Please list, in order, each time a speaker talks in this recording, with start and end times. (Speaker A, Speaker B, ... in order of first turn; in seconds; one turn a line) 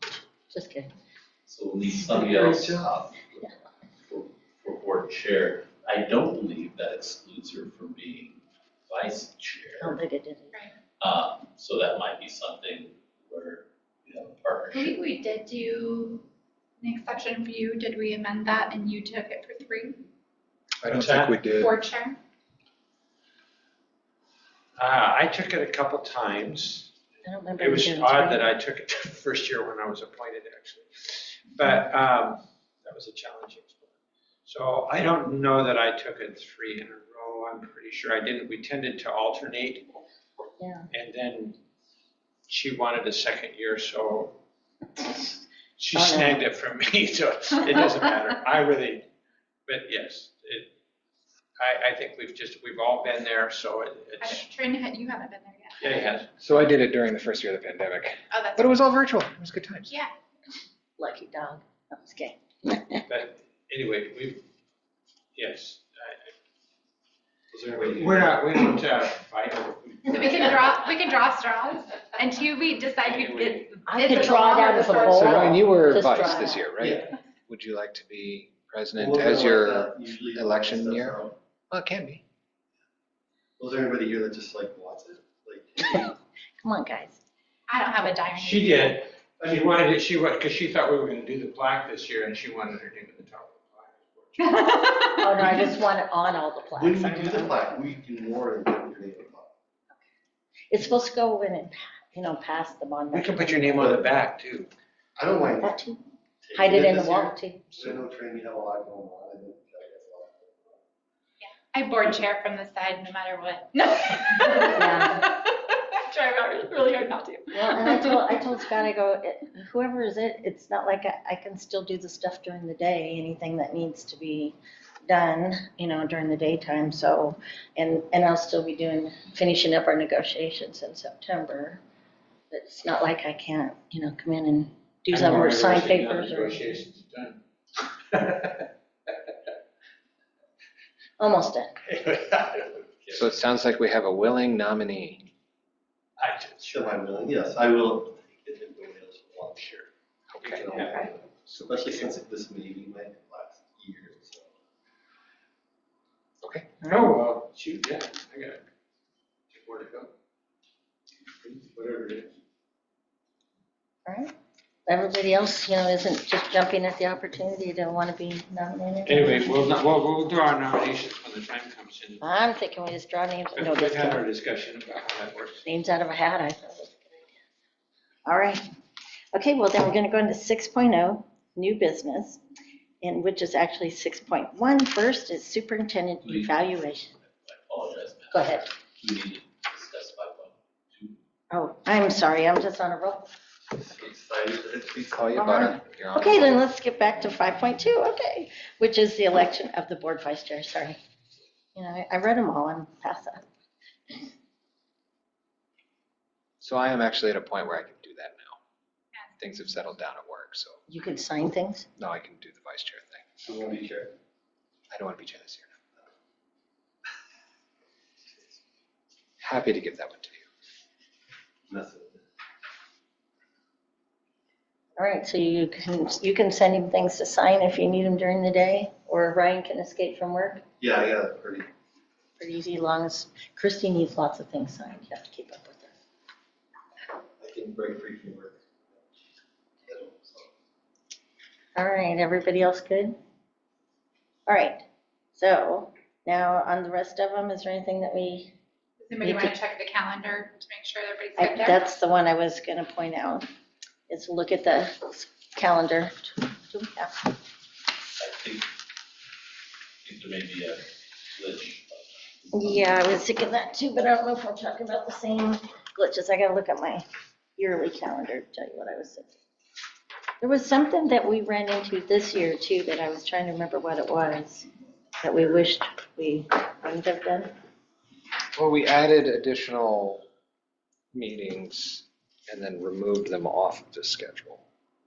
Speaker A: 0.5-0.9
Speaker B: 1.4-3.3
Speaker B: 4.0-10.0
Speaker A: 9.8-10.5
Speaker B: 11.0-15.0
Speaker C: 14.7-16.2
Speaker C: 16.8-20.0
Speaker D: 20.8-21.7
Speaker E: 20.8-21.5
Speaker C: 21.4-22.2
Speaker E: 24.8-27.0
Speaker A: 27.2-28.5
Speaker E: 27.5-39.9
Speaker A: 40.6-40.9
Speaker E: 40.9-41.6
Speaker E: 42.5-44.4
Speaker E: 45.8-49.1
Speaker A: 45.9-46.5
Speaker E: 49.7-50.7
Speaker E: 51.6-54.5
Speaker C: 54.2-55.9
Speaker E: 55.8-56.3
Speaker D: 56.4-59.9
Speaker C: 58.3-58.7
Speaker C: 59.9-60.1
Speaker A: 61.0-63.0
Speaker E: 63.1-64.4
Speaker E: 65.3-66.3
Speaker E: 67.5-71.2
Speaker F: 67.6-68.6
Speaker C: 70.1-75.7
Speaker E: 73.0-73.7
Speaker A: 73.9-76.7
Speaker D: 75.1-82.2
Speaker F: 76.7-77.1
Speaker F: 79.0-81.3
Speaker F: 83.6-86.0
Speaker A: 85.8-87.2
Speaker C: 87.7-89.0
Speaker E: 88.3-94.6
Speaker F: 89.4-89.8
Speaker C: 94.4-95.5
Speaker A: 95.1-97.5
Speaker E: 95.5-95.7
Speaker F: 96.7-99.5
Speaker A: 100.7-103.7
Speaker E: 103.1-104.7
Speaker F: 103.7-104.1
Speaker F: 105.2-105.8
Speaker A: 105.6-106.0
Speaker F: 106.4-110.8
Speaker A: 106.5-107.8
Speaker C: 111.4-118.2
Speaker A: 114.7-115.2
Speaker A: 117.5-131.8
Speaker A: 132.5-136.7
Speaker E: 135.1-139.3
Speaker A: 141.2-141.7
Speaker E: 141.9-143.1
Speaker D: 143.1-145.3
Speaker E: 146.2-146.9
Speaker F: 146.6-149.9
Speaker D: 150.3-150.9
Speaker E: 150.4-152.0
Speaker F: 150.5-154.5
Speaker D: 151.6-151.8
Speaker D: 156.4-156.7
Speaker A: 156.8-157.2
Speaker E: 156.9-158.6
Speaker E: 159.5-160.1
Speaker E: 161.4-162.3
Speaker A: 164.1-164.3
Speaker A: 164.9-169.9
Speaker E: 169.1-172.2
Speaker A: 172.2-174.2
Speaker E: 173.5-175.6
Speaker A: 175.6-177.4
Speaker A: 178.2-178.6
Speaker A: 179.3-182.4
Speaker A: 183.0-187.1
Speaker B: 186.2-191.2
Speaker A: 188.3-188.6
Speaker A: 191.5-193.3
Speaker F: 193.7-195.3
Speaker D: 195.1-196.6
Speaker A: 195.3-201.0
Speaker A: 201.8-203.5
Speaker D: 206.6-208.6
Speaker C: 209.1-209.5
Speaker D: 209.4-210.8
Speaker A: 210.9-211.9
Speaker D: 212.0-213.5
Speaker F: 213.4-214.1
Speaker D: 214.9-215.8
Speaker D: 219.4-220.5
Speaker F: 221.7-222.2
Speaker A: 225.0-230.7
Speaker F: 230.8-231.7
Speaker A: 232.4-235.9
Speaker F: 237.4-239.2
Speaker F: 239.8-240.5
Speaker A: 241.8-243.2
Speaker A: 244.5-244.8
Speaker A: 245.3-248.6
Speaker C: 249.0-251.8
Speaker A: 249.2-249.6
Speaker A: 251.4-253.5
Speaker A: 254.1-257.1
Speaker B: 258.2-258.7
Speaker B: 260.0-260.8
Speaker B: 261.3-263.0
Speaker A: 262.5-267.1
Speaker A: 267.6-269.3
Speaker A: 270.4-274.7
Speaker A: 275.2-277.5
Speaker D: 278.5-280.2
Speaker D: 281.1-284.6